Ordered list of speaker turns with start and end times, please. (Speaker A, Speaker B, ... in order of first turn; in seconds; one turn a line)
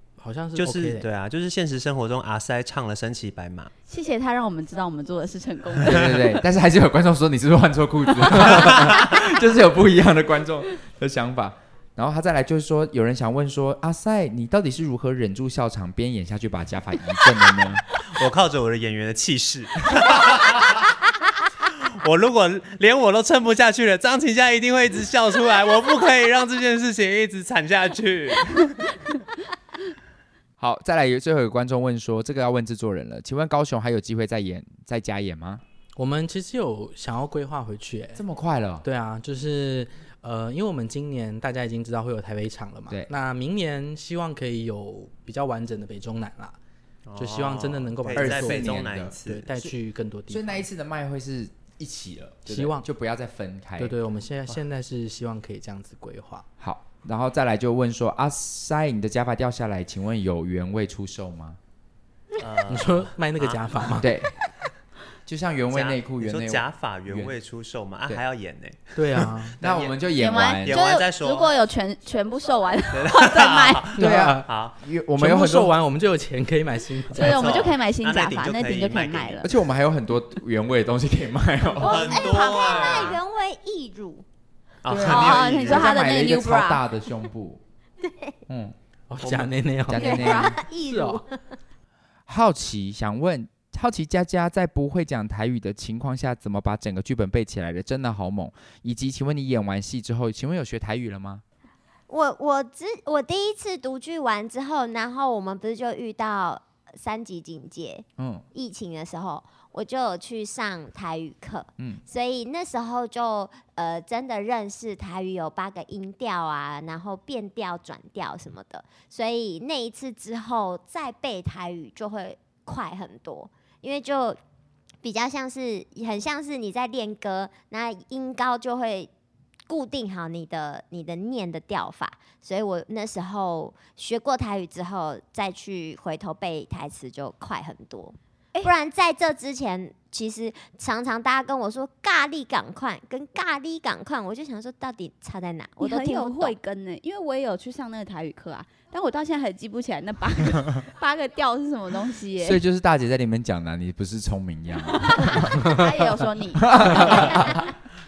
Speaker A: 0.2-1.1
Speaker B: 0.6-3.7
Speaker C: 3.9-6.4
Speaker D: 5.8-17.9
Speaker B: 18.0-20.9
Speaker B: 21.7-28.9
Speaker D: 30.6-35.6
Speaker A: 36.0-38.2
Speaker D: 38.2-38.9
Speaker A: 38.8-46.6
Speaker B: 47.1-49.5
Speaker A: 47.2-50.6
Speaker D: 48.2-49.8
Speaker D: 50.3-54.0
Speaker A: 52.5-52.9
Speaker A: 53.8-56.5
Speaker D: 56.6-61.6
Speaker B: 62.4-64.0
Speaker A: 62.7-64.1
Speaker D: 64.0-64.3
Speaker D: 65.3-67.3
Speaker B: 65.7-70.0
Speaker A: 69.0-69.5
Speaker D: 69.6-70.8
Speaker C: 70.2-73.9
Speaker B: 70.7-71.5
Speaker B: 72.9-74.8
Speaker A: 74.0-74.5
Speaker D: 74.0-75.7
Speaker A: 75.2-77.4
Speaker C: 77.1-79.5
Speaker B: 77.2-79.4
Speaker D: 79.4-82.0
Speaker B: 81.8-83.2
Speaker E: 81.8-84.2
Speaker C: 82.0-83.1
Speaker B: 84.8-86.0
Speaker D: 84.9-87.6
Speaker C: 85.0-86.8
Speaker E: 88.0-88.4
Speaker D: 88.5-88.8
Speaker A: 89.1-91.2
Speaker D: 89.9-90.6
Speaker E: 90.0-91.3
Speaker D: 92.3-101.4
Speaker E: 102.1-124.4
Speaker D: 108.2-108.5
Speaker E: 125.0-129.1
Speaker E: 129.7-146.6
Speaker C: 145.8-152.6
Speaker D: 152.4-155.8
Speaker C: 155.0-157.4
Speaker D: 156.6-157.7